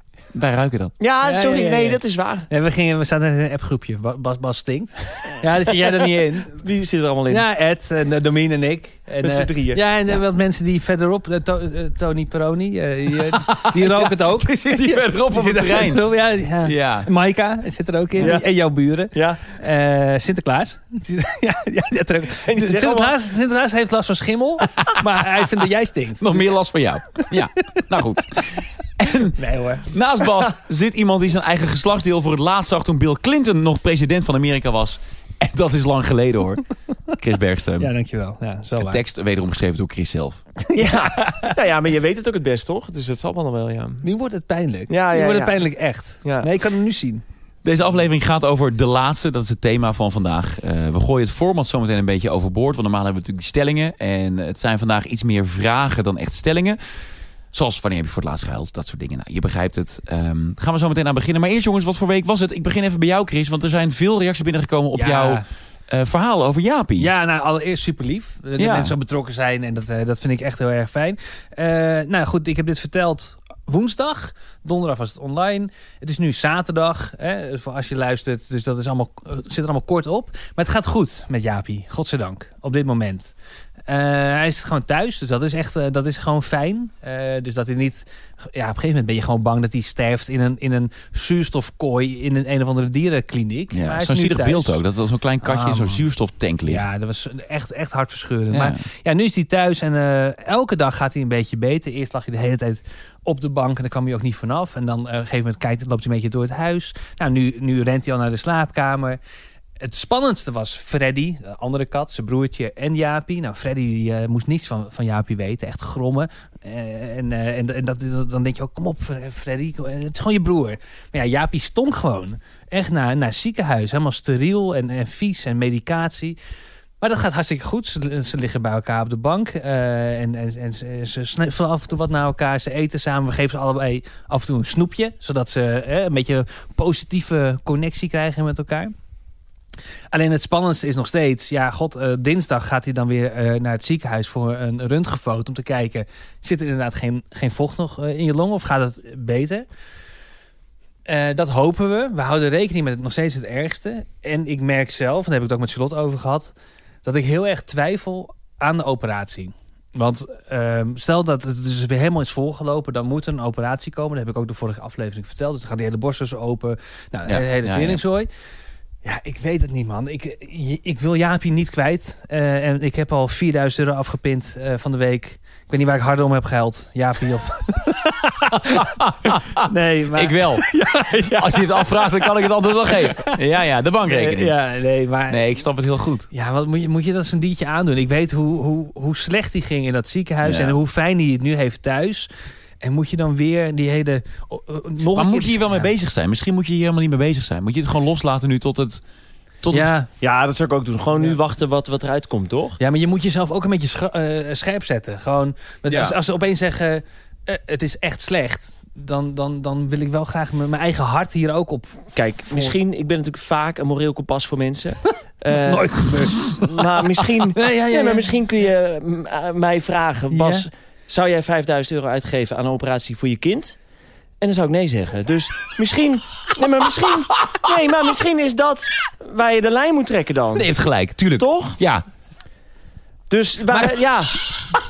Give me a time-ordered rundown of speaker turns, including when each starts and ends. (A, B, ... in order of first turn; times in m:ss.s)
0:00.3-0:00.9 A
0:01.0-0:02.5 B
0:01.2-0:06.6 C
0:06.5-0:07.4 B
0:07.3-0:26.5 C
0:09.2-0:09.8 B
0:13.2-0:16.1 A
0:16.6-0:17.1 A
0:18.2-0:18.5 B
0:19.1-0:19.4 B
0:22.4-0:23.2 B
0:26.2-0:29.4 A
0:29.4-0:29.9 C
0:29.9-0:37.9 A
0:37.8-0:39.0 C
0:38.8-0:40.4 A
0:40.7-0:41.5 C
0:40.7-0:44.0 B
0:44.0-0:47.2 C
0:44.9-0:45.6 B
0:46.2-0:46.5 B
0:47.6-0:56.8 A
0:57.5-1:07.1 A
1:04.9-1:05.4 C
1:07.0-1:23.3 C
1:08.6-1:08.9 A
1:23.9-1:34.8 C
1:33.7-1:36.9 A
1:35.4-1:36.0 C
1:36.7-1:49.2 C
1:38.5-1:38.8 A
1:49.8-2:06.4 C
2:07.0-2:18.9 C
2:20.1-2:29.7 C
2:31.0-2:36.5 C
2:37.0-2:48.3 C
2:47.3-2:48.0 A
2:49.0-3:03.4 C
2:58.5-3:00.7 A
3:01.2-3:04.5 A
3:04.0-3:05.4 C
3:05.3-3:06.3 A
3:06.3-3:12.3 C
3:10.4-3:10.8 A
3:12.8-3:15.9 C
3:15.1-3:19.0 A
3:19.6-3:19.9 A
3:19.7-3:20.1 C
3:20.2-3:22.8 B
3:22.8-3:32.7 C
3:25.9-3:26.2 A
3:32.1-3:43.8 B
3:35.6-3:38.3 C
3:40.3-3:40.6 C
3:44.4-3:50.7 B
3:50.5-3:52.0 A
3:51.4-3:51.8 B
3:53.3-3:54.4 B